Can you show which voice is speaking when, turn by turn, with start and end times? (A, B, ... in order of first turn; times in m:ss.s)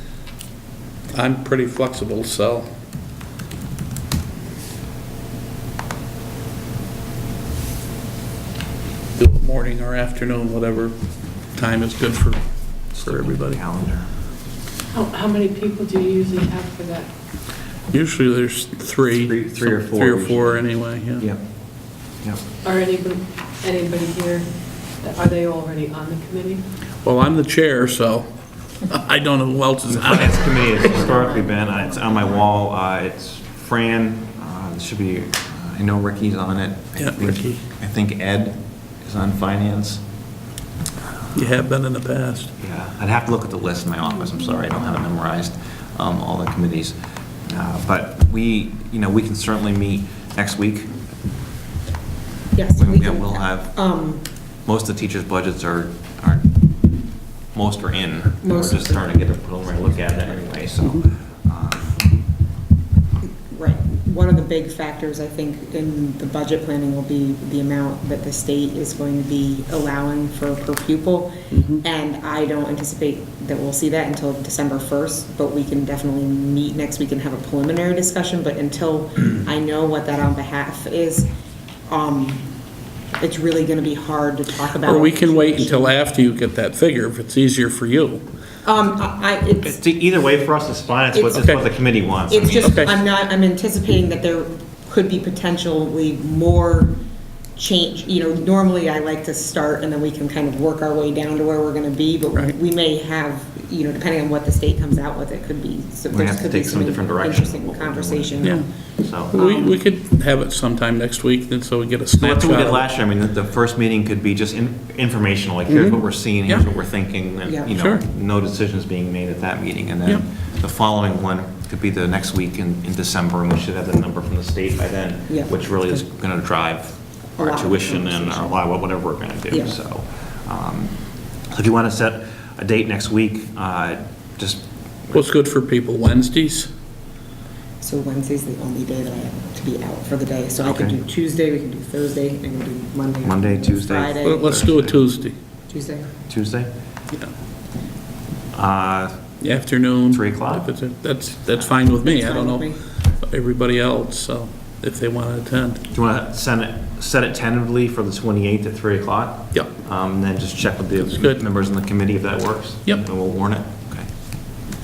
0:01.1-0:02.7 A
0:09.2-0:10.9 A
0:11.5-0:12.4 A
0:12.9-0:14.1 B
0:12.9-0:13.6 A
0:14.9-0:17.1 C
0:17.9-0:21.3 A
0:19.1-0:21.4 B
0:22.6-0:24.5 C
0:25.0-0:26.6 C
0:27.0-0:28.3 A
0:28.9-0:31.0 A
0:29.9-0:40.0 B
0:37.0-0:37.6 A
0:41.3-0:42.5 A
0:42.6-0:47.0 B
0:47.5-0:50.9 B
0:52.5-0:54.2 D
0:52.7-0:54.0 B
0:54.6-0:56.5 B
0:57.5-1:02.0 B
0:58.4-0:59.1 D
1:03.5-1:21.3 D
1:11.5-1:11.8 A
1:21.9-1:22.5 D
1:23.2-1:25.9 D
1:24.8-1:28.2 A
1:28.6-1:29.7 D
1:29.6-1:32.9 B
1:31.2-1:31.5 D
1:31.3-1:31.6 A
1:32.3-1:37.0 D
1:32.6-1:32.9 A
1:37.6-1:48.6 D
1:46.1-1:49.4 B
1:48.4-1:48.7 A
1:49.3-1:52.8 A
1:49.4-1:49.8 D
1:52.1-2:10.9 B
1:55.7-1:56.6 A
1:57.7-1:58.0 A
2:07.4-2:08.6 D
2:11.5-2:15.2 B
2:15.1-2:16.7 A
2:17.8-2:24.6 D
2:20.6-2:21.0 B
2:23.2-2:25.0 B
2:24.2-2:25.3 A
2:25.7-2:26.1 D
2:26.3-2:26.7 B
2:28.5-2:29.2 B
2:29.4-2:35.8 A
2:30.1-2:30.7 B
2:32.0-2:32.8 D
2:35.9-2:44.1 B
2:41.0-2:41.4 A